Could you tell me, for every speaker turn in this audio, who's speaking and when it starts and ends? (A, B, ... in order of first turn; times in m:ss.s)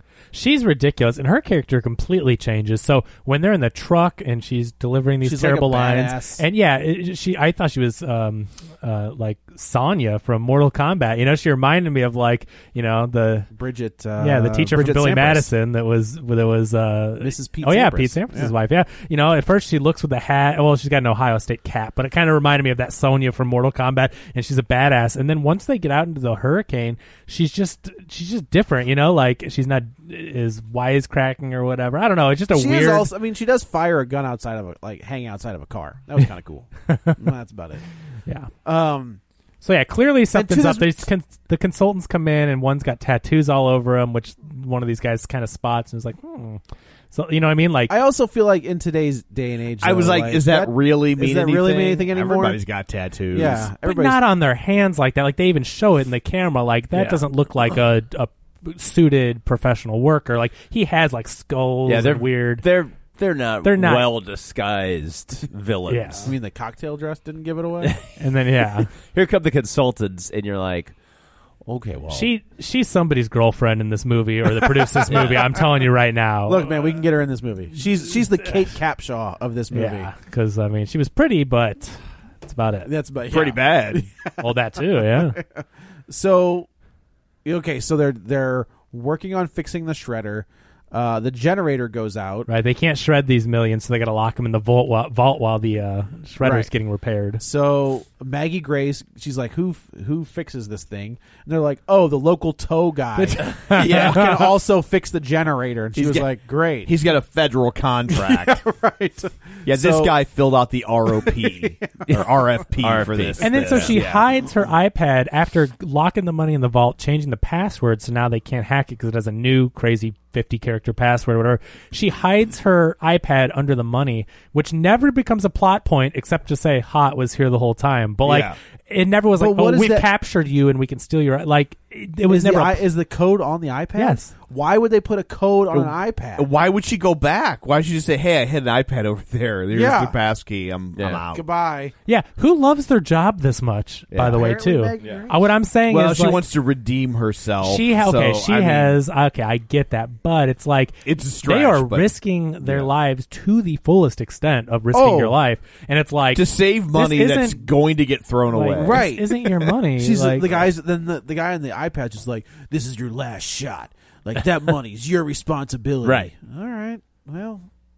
0:00.3-0:13.5 A
0:05.2-0:06.4 B
0:13.5-0:15.5 B
0:14.2-0:33.1 A
0:17.2-0:18.5 B
0:32.5-0:37.8 B
0:36.9-0:37.2 A
0:38.6-0:39.2 B
0:39.6-0:46.6 A
0:40.3-0:41.1 B
0:47.1-0:48.0 A
0:47.9-0:52.6 B
0:49.8-0:53.7 C
0:53.3-0:54.2 B
0:53.8-1:02.6 A
0:56.9-0:57.2 D
1:01.8-1:06.3 D
1:03.6-1:04.1 A
1:05.9-1:06.3 A
1:06.2-1:08.0 B
1:07.8-1:08.1 D
1:08.2-1:08.9 A
1:08.9-1:10.9 D
1:11.6-1:12.3 D
1:12.1-1:16.7 A
1:15.1-1:15.5 B
1:15.1-1:15.5 D
1:16.4-1:20.1 B
1:19.7-1:22.9 A
1:22.8-1:24.5 B
1:23.3-1:24.1 C
1:24.4-1:25.4 A
1:25.0-1:26.7 B
1:27.4-1:32.5 B
1:32.5-1:37.4 A
1:36.4-1:36.7 B
1:37.4-1:46.9 B
1:43.2-1:44.5 A
1:43.5-1:44.2 D
1:45.9-1:48.6 C
1:48.1-1:50.1 B
1:49.6-1:54.3 C
1:51.1-1:52.1 B
1:52.8-1:54.0 D
1:53.4-2:12.9 A
2:08.2-2:08.6 C
2:09.3-2:10.1 B
2:12.3-2:16.5 B
2:14.0-2:14.3 A
2:15.7-2:21.4 C
2:19.7-2:20.2 B
2:21.0-2:21.2 D
2:21.3-2:21.9 B
2:22.0-2:26.4 A
2:24.1-2:24.4 C
2:24.2-2:25.5 B
2:25.9-2:29.0 C
2:27.6-2:37.7 A
2:31.0-2:32.1 C
2:32.6-2:32.9 C
2:34.9-2:35.4 B
2:36.3-2:39.1 C
2:38.5-2:40.5 A
2:38.8-2:47.6 B
2:46.0-2:46.3 D